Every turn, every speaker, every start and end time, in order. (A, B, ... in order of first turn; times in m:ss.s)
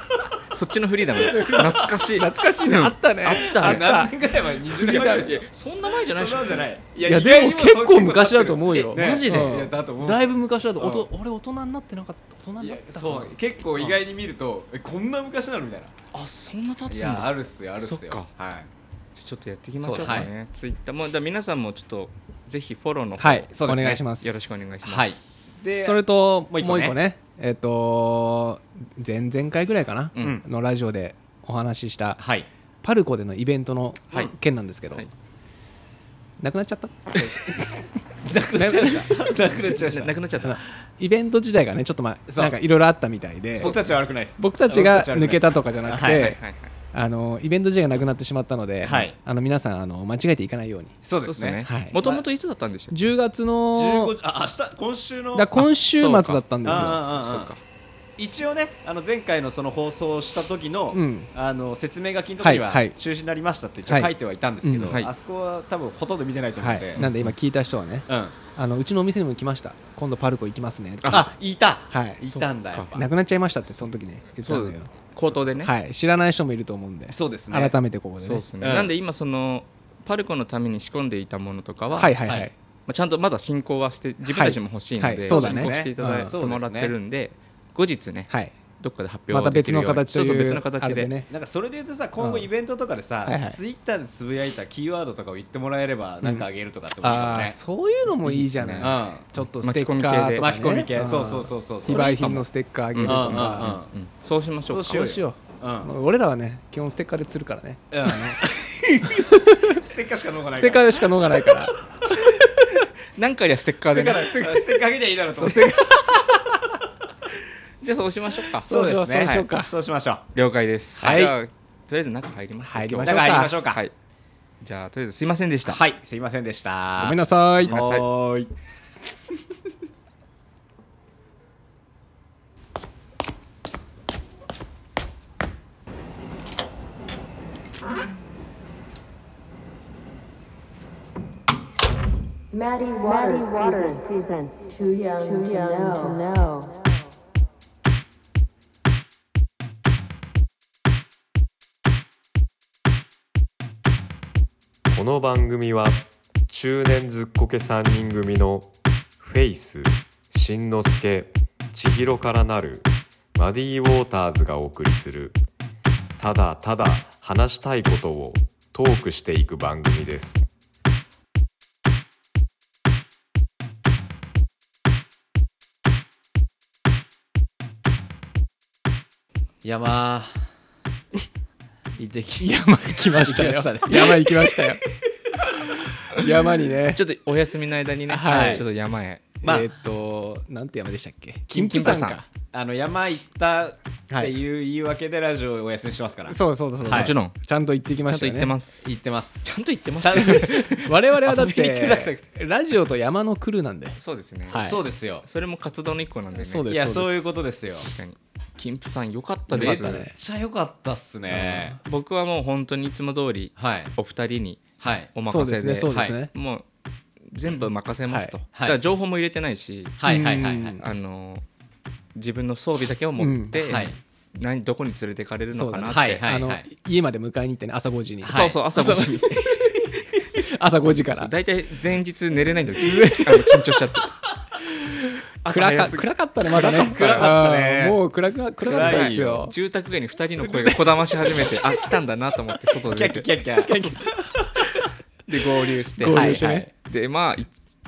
0:00.5-0:03.8 A
0:01.2-0:04.1 B
0:03.3-0:05.4 C
0:04.6-0:05.4 B
0:04.8-0:06.7 A
0:06.0-0:11.1 C
0:07.0-0:14.0 B
0:08.7-0:09.7 A
0:12.6-0:15.9 C
0:16.1-0:18.3 A
0:16.9-0:18.7 C
0:19.2-0:25.2 A
0:19.8-0:20.2 B
0:19.9-0:20.3 C
0:23.2-0:24.5 B
0:23.5-0:24.0 C
0:24.8-0:26.0 C
0:25.8-0:32.2 B
0:26.5-0:27.0 C
0:30.1-0:30.4 A
0:32.2-0:32.5 C
0:32.8-0:35.1 B
0:36.4-0:37.6 B
0:38.2-0:40.4 C
0:38.5-0:39.1 B
0:39.8-0:40.6 A
0:40.4-0:43.7 B
0:42.3-0:42.5 C
0:43.6-0:46.3 C
0:43.6-0:43.8 A
0:44.4-0:46.4 B
0:46.0-0:46.7 A
0:46.9-0:50.9 B
0:48.8-0:49.1 C
0:51.0-0:52.2 C
0:51.2-0:53.0 A
0:51.6-0:52.0 B
0:52.9-0:54.1 B
0:53.7-0:55.6 C
0:55.3-0:57.0 B
0:55.6-0:57.6 A
0:56.6-0:57.5 C
0:58.2-1:07.0 C
1:00.9-1:01.3 B
1:02.4-1:02.9 B
1:04.6-1:05.0 B
1:06.6-1:11.3 B
1:07.0-1:07.3 A
1:08.1-1:08.4 C
1:11.0-1:11.3 A
1:11.1-1:13.0 C
1:11.9-1:12.2 B
1:12.2-1:13.0 A
1:12.9-1:18.4 B
1:14.4-1:15.7 A
1:17.1-1:17.8 C
1:18.2-1:22.1 A
1:18.6-1:18.9 C
1:21.9-1:22.5 B
1:22.9-1:31.1 A
1:24.2-1:26.3 B
1:25.3-1:26.9 C
1:29.3-1:31.3 B
1:31.3-1:37.6 C
1:32.2-1:32.5 B
1:33.2-1:33.6 B
1:36.2-1:36.5 B
1:37.0-1:43.7 B
1:38.2-1:40.6 A
1:38.8-1:39.3 C
1:40.4-1:42.2 C
1:41.9-1:45.2 A
1:43.0-1:43.9 C
1:44.7-1:45.9 C
1:44.9-1:48.4 B
1:47.9-1:51.0 C
1:49.0-1:49.8 B
1:50.6-1:51.8 B
1:53.2-1:54.3 A
1:53.9-1:54.8 B
1:54.2-1:56.4 C
1:55.4-1:56.2 B
1:57.8-1:58.7 A
1:58.6-2:00.2 C
1:58.6-1:59.7 B
2:00.3-2:03.9 A
2:01.0-2:01.3 C
2:01.0-2:01.3 B
2:02.6-2:03.5 B
2:03.0-2:03.8 C
2:04.6-2:05.8 A
2:05.6-2:08.5 C
2:07.0-2:07.7 B
2:07.7-2:08.0 A
2:22.5-2:26.8 D
2:34.9-2:45.4 E
2:46.2-2:50.5 E
2:59.6-3:00.5 C
3:02.0-3:05.0 C
3:02.4-3:04.8 B
3:05.6-3:07.0 B
3:06.9-3:09.2 A
3:08.1-3:08.6 B
3:08.2-3:08.6 C
3:09.4-3:12.2 B
3:09.4-3:09.7 C
3:11.5-3:12.2 A
3:12.3-3:17.1 C
3:16.3-3:18.5 B
3:16.9-3:17.3 A
3:18.1-3:18.8 A
3:18.8-3:20.6 C
3:19.4-3:22.1 A
3:20.1-3:24.8 B
3:21.6-3:21.9 C
3:24.0-3:24.7 A
3:24.5-3:25.2 C
3:25.2-3:26.7 A
3:26.4-3:27.3 B
3:26.7-3:27.9 C
3:27.8-3:30.0 A
3:29.5-3:30.1 B
3:29.5-3:31.8 C
3:31.3-3:31.7 B
3:31.8-3:36.6 A
3:33.6-3:33.9 C
3:34.8-3:35.1 C
3:35.2-3:36.3 B
3:35.9-3:36.1 C
3:37.3-3:40.0 A
3:38.1-3:38.4 B
3:40.0-3:40.8 C
3:40.0-3:40.8 B
3:40.8-3:41.4 A
3:42.1-3:46.2 A
3:43.2-3:43.9 B
3:43.7-3:43.9 C
3:45.5-3:51.3 B
3:45.9-3:46.6 C
3:48.2-3:48.6 C
3:48.3-3:49.6 A
3:51.1-3:54.1 A
3:52.8-3:53.7 B
3:55.4-3:57.3 A
3:55.5-3:59.5 B
3:56.5-3:58.0 C
3:58.6-3:59.4 C
3:58.7-4:03.9 A
4:00.4-4:00.8 B
4:02.9-4:04.5 C
4:03.6-4:04.1 B
4:05.3-4:07.5 A
4:06.0-4:06.7 B
4:06.0-4:06.7 C